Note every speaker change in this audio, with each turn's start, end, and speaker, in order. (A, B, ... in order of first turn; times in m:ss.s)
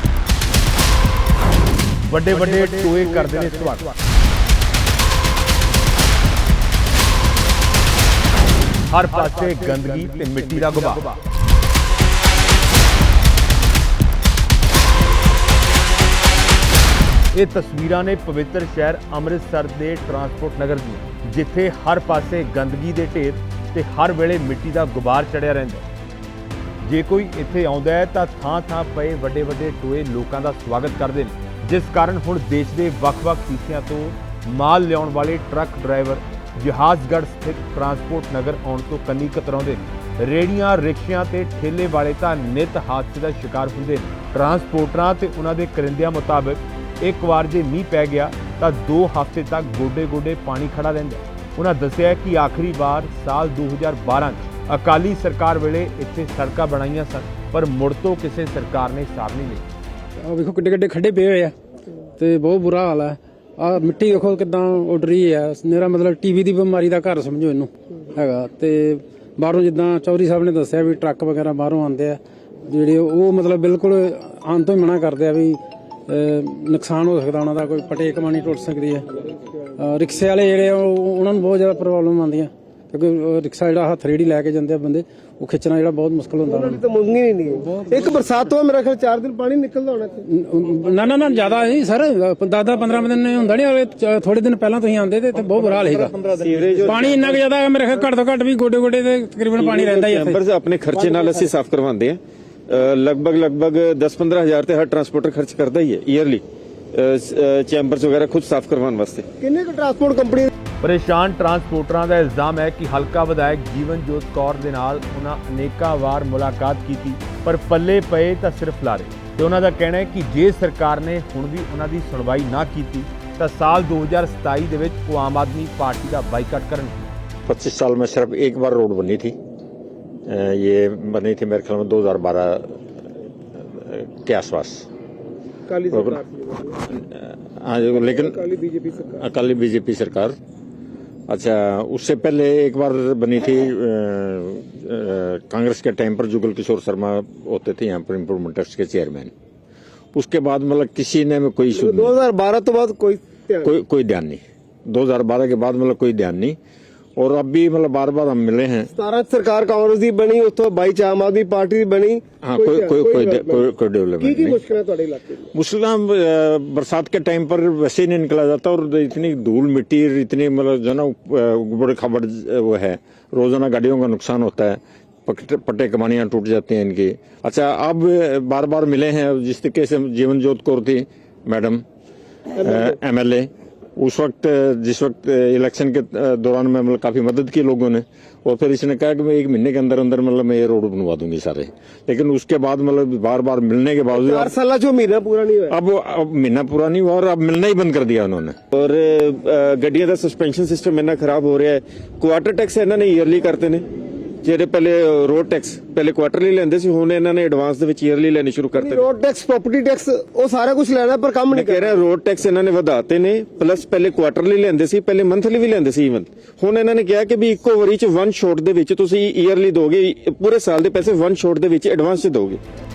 0:02.0-0:03.9 A
0:08.9-0:11.2 A
0:17.3-0:25.8 A
0:26.8-0:59.6 A
1:00.2-1:01.5 B
1:02.2-1:19.2 B
1:19.8-1:26.8 B
1:26.4-1:30.2 C
1:27.6-1:28.1 B
1:30.3-1:36.3 B
1:36.3-1:37.4 D
1:36.8-1:40.4 B
1:39.6-1:49.3 D
1:49.4-1:50.5 C
1:50.8-2:07.0 A
2:07.4-2:09.4 E
2:10.3-2:12.7 E
2:13.7-2:14.8 E
2:15.7-2:16.8 C
2:15.9-2:16.2 E
2:16.9-2:18.4 E
2:18.2-2:19.2 C
2:19.1-2:20.3 E
2:21.3-2:29.3 E
2:30.1-2:32.1 E
2:31.7-2:33.7 C
2:33.6-2:36.6 E
2:37.2-2:38.9 E
2:38.9-2:43.6 C
2:42.4-2:44.6 E
2:44.2-2:45.5 C
2:45.5-3:01.8 E
3:02.6-3:14.5 E
3:14.1-3:15.7 C
3:15.7-3:18.6 E
3:18.7-3:23.8 D
3:24.4-3:29.0 D
3:28.7-3:32.0 C
3:31.5-3:42.6 D